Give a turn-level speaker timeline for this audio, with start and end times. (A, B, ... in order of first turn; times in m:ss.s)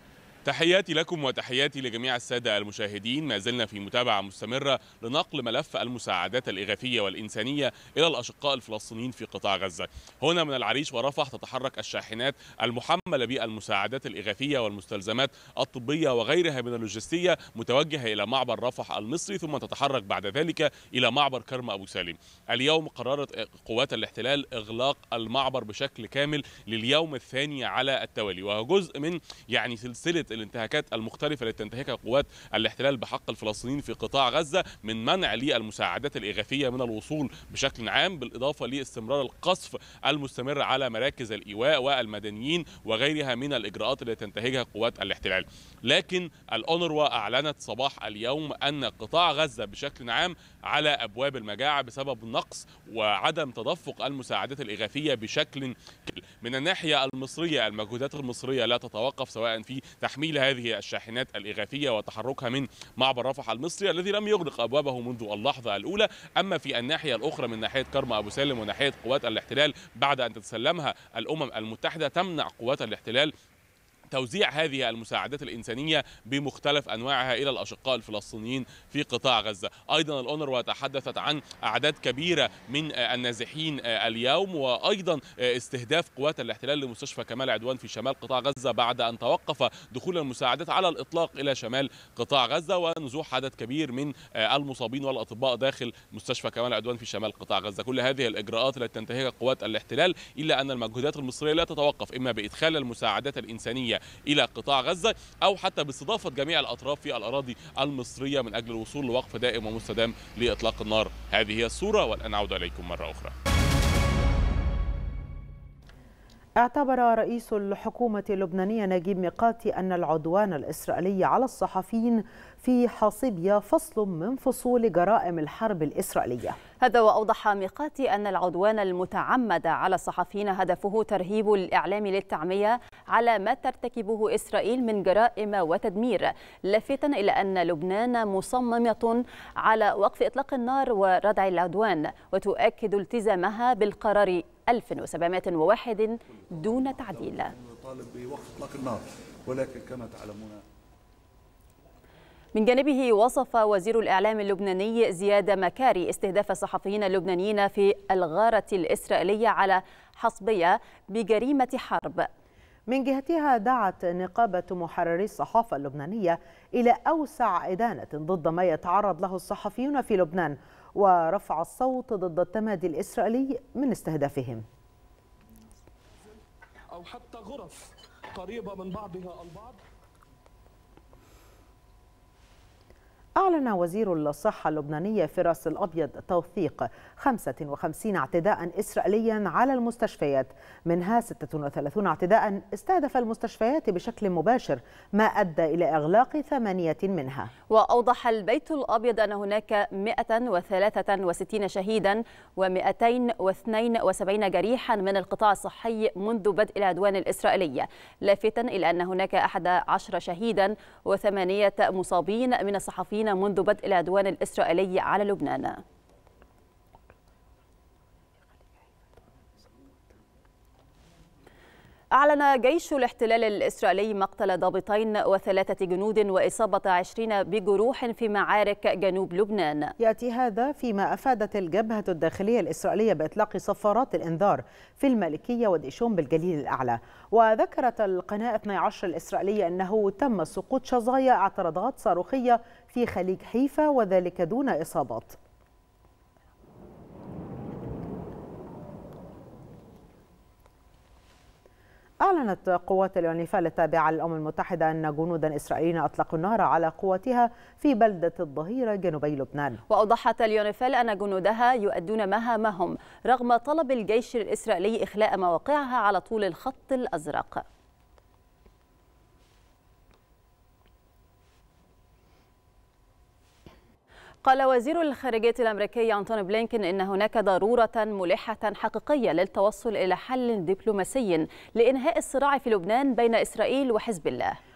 0:00.4-1:13.3 A
1:14.1-1:53.3 A
1:56.6-2:06.6 B
2:06.8-2:27.5 C
2:26.5-2:30.6 D
2:32.5-2:42.3 C
2:42.9-2:54.6 B
2:56.9-2:59.8 E
3:03.4-3:17.5 B
3:17.7-3:35.8 C
3:42.1-3:49.9 C
3:50.0-4:05.4 B
4:12.2-4:19.8 B
4:19.9-4:27.6 C
4:34.4-4:44.6 C